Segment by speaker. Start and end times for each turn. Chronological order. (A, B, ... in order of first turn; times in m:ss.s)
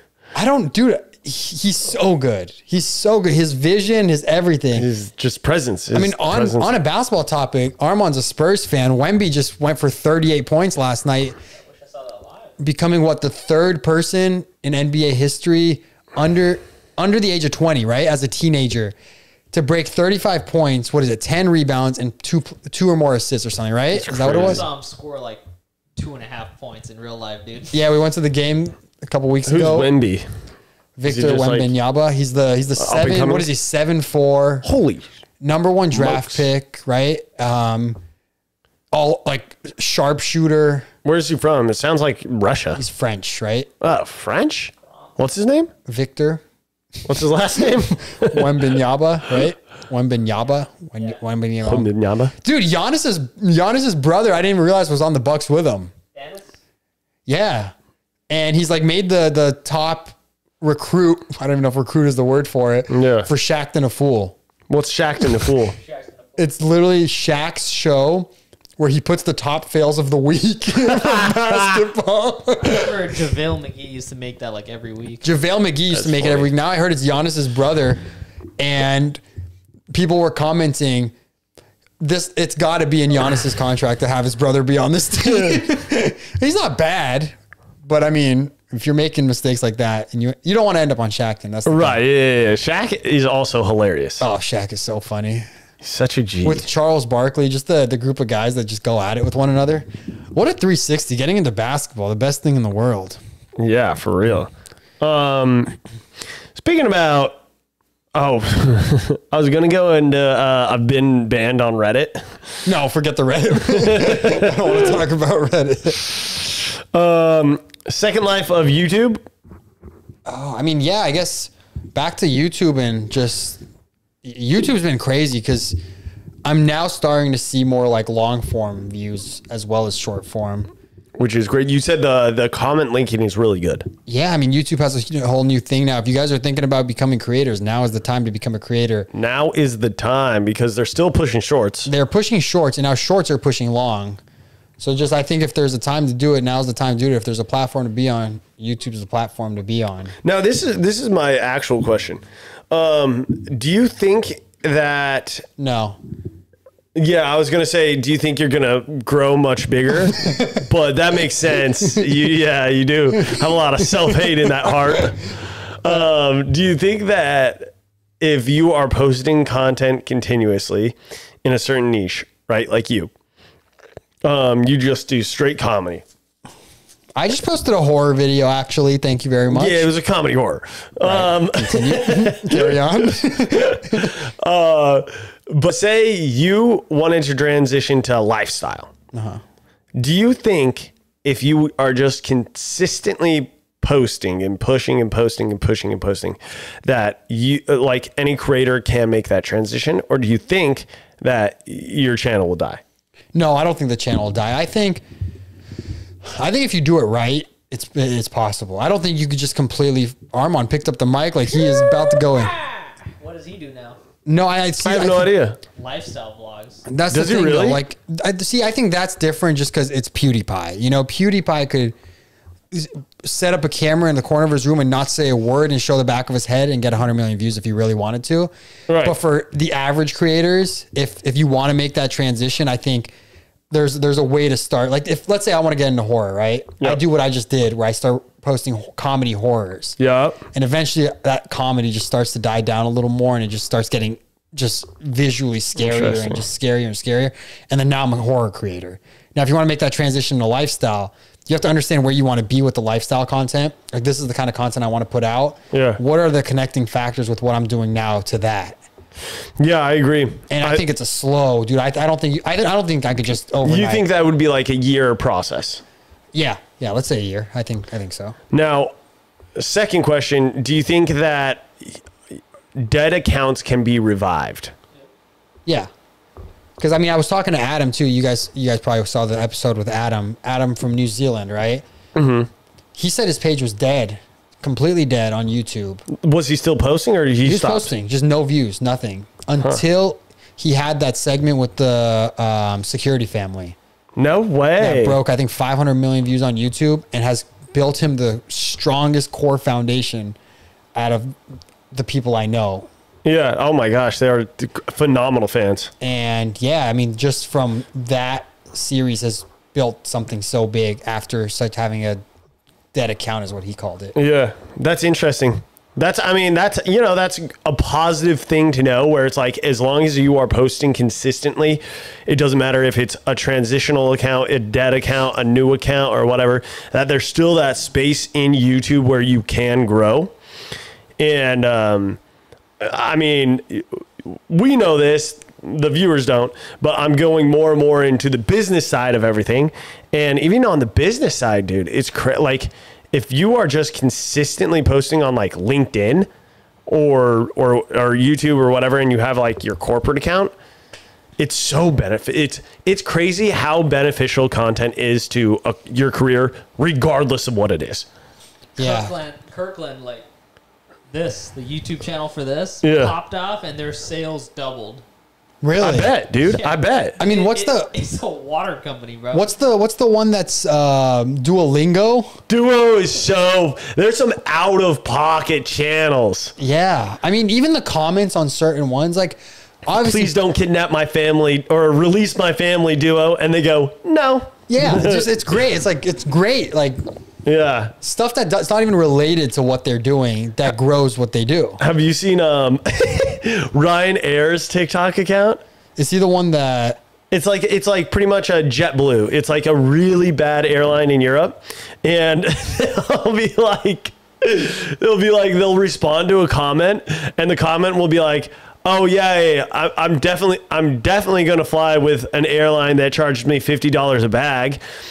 0:00.3-0:04.9 A
0:04.7-0:06.7 B
0:05.9-0:11.4 A
0:11.6-0:12.5 C
0:12.6-0:18.9 A
0:19.5-0:24.6 A
0:23.9-0:24.6 B
0:24.2-0:25.4 C
0:26.0-0:27.7 C
0:27.7-0:29.9 A
0:29.4-0:30.2 B
0:31.0-0:34.6 A
0:31.0-0:31.7 B
0:32.8-0:33.5 B
0:34.6-0:35.0 B
0:35.4-0:38.0 A
0:35.9-0:36.4 B
0:38.9-0:40.9 A
0:41.0-0:42.8 B
0:42.8-0:43.7 A
0:43.8-0:45.7 B
0:45.8-0:46.4 A
0:47.0-0:48.6 B
0:48.1-0:51.9 A
0:51.6-0:52.3 B
0:52.4-0:55.9 A
0:56.1-0:56.5 C
0:57.3-0:57.7 A
0:58.3-1:04.4 A
1:02.9-1:03.3 B
1:04.7-1:05.8 B
1:05.8-1:06.4 C
1:06.4-1:13.1 A
1:10.8-1:11.8 B
1:12.6-1:15.2 C
1:15.2-1:18.0 A
1:15.9-1:16.5 B
1:18.6-1:19.2 A
1:19.9-1:21.1 A
1:22.0-1:32.0 A
1:25.2-1:25.6 B
1:31.6-1:34.2 B
1:34.2-1:35.4 A
1:35.8-1:36.6 B
1:36.4-1:43.2 A
1:43.6-1:45.8 B
1:46.5-1:47.4 B
1:48.1-1:52.4 B
1:52.6-1:56.2 A
1:53.7-1:55.0 B
1:56.9-1:59.2 B
2:00.2-2:03.6 A
2:04.2-2:05.8 A
2:06.4-2:10.7 A
2:11.2-2:13.9 B
2:14.1-2:19.1 A
2:19.1-2:21.9 B
2:21.8-2:24.2 A
2:24.8-2:30.1 A
2:30.2-2:35.5 B
2:35.6-2:36.0 A
2:36.9-2:53.1 B
2:40.1-2:40.6 A
2:41.8-2:42.1 A
2:43.2-2:45.1 A
2:54.2-2:56.0 B
2:57.2-2:59.9 A
2:59.5-3:08.9 B
3:01.0-3:04.2 A
3:09.1-3:09.4 A
3:09.9-3:22.8 B
3:23.3-3:25.0 A
3:26.2-3:32.6 A
3:33.2-3:34.0 C
3:34.2-3:35.3 A
3:34.8-3:35.6 B
3:35.8-3:36.8 C
3:36.8-3:41.9 A
3:37.1-3:37.8 B
3:42.7-3:48.5 A
3:48.9-3:49.2 B
3:49.0-3:53.1 A
3:53.7-4:00.0 A
4:00.0-4:00.4 B
4:00.5-4:18.8 A
4:05.8-4:06.4 B
4:15.7-4:16.0 B
4:19.6-4:20.8 B
4:20.5-4:24.0 A
4:23.6-4:25.8 B
4:26.3-4:28.4 A
4:28.5-4:28.9 B
4:29.6-4:32.0 B
4:32.7-4:34.7 B
4:36.8-4:41.8 A
4:42.1-4:42.5 B
4:43.0-4:46.1 A
4:46.1-4:47.9 B
4:47.4-4:53.8 A
4:54.2-4:55.2 B
4:54.8-5:00.4 A
5:00.9-5:01.3 A
5:01.9-5:02.9 A
5:03.2-5:05.9 B
5:06.0-5:12.2 A
5:12.9-5:14.1 A
5:14.1-5:30.3 B
5:31.2-5:32.2 B
5:32.8-5:46.3 B
5:46.9-5:50.5 B
5:51.4-5:58.1 B
5:58.8-5:59.1 A
5:58.8-6:00.2 C
6:01.1-6:05.0 C
6:02.8-6:03.1 B
6:05.6-6:06.1 A
6:05.8-6:07.2 B
6:06.4-6:09.5 C
6:07.2-6:07.9 A
6:09.3-6:12.3 A
6:12.5-6:16.5 B
6:16.6-6:20.4 A
6:19.9-6:25.3 B
6:24.7-6:27.0 A
6:27.4-6:27.9 B
6:28.0-6:31.8 A
6:31.8-6:35.6 B
6:36.0-6:37.0 A
6:37.3-6:54.8 B